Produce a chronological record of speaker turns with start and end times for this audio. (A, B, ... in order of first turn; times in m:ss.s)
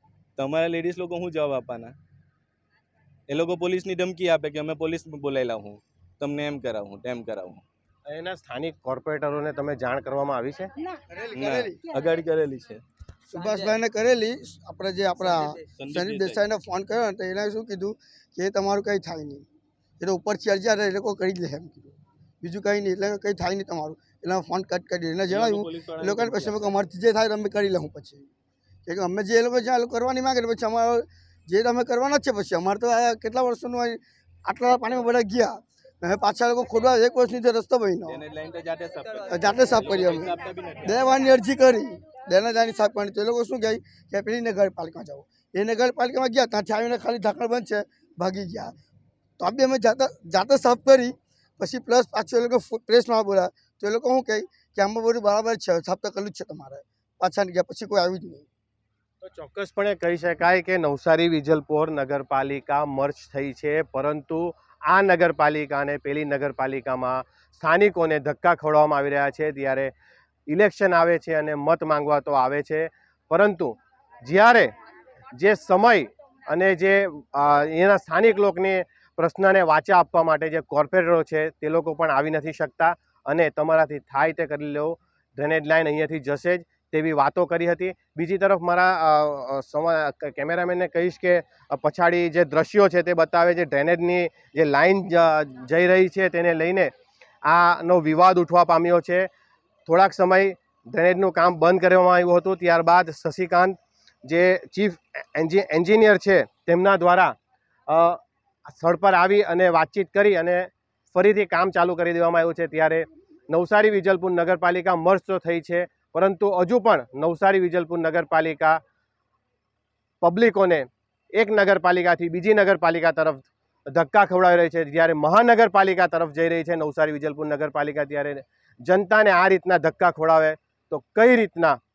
0:00.4-0:02.0 A
0:03.3-0:07.6 A
0:08.1-0:10.7 B
0:11.1-0:11.8 C
0:11.4-0:12.8 A
0:13.3-0:19.5 C
0:15.7-0:16.5 A
0:20.0-0:28.3 C
0:25.3-0:26.7 A
0:28.9-0:38.2 C
0:38.1-0:41.2 A
0:39.3-0:48.7 C
0:49.4-0:58.5 C
0:59.2-1:09.9 B
1:10.5-1:14.7 B
1:15.3-1:36.9 B
1:37.4-1:39.3 B
1:39.9-1:47.4 B
1:47.9-1:48.2 B
1:48.8-1:58.8 B
2:00.2-2:11.8 B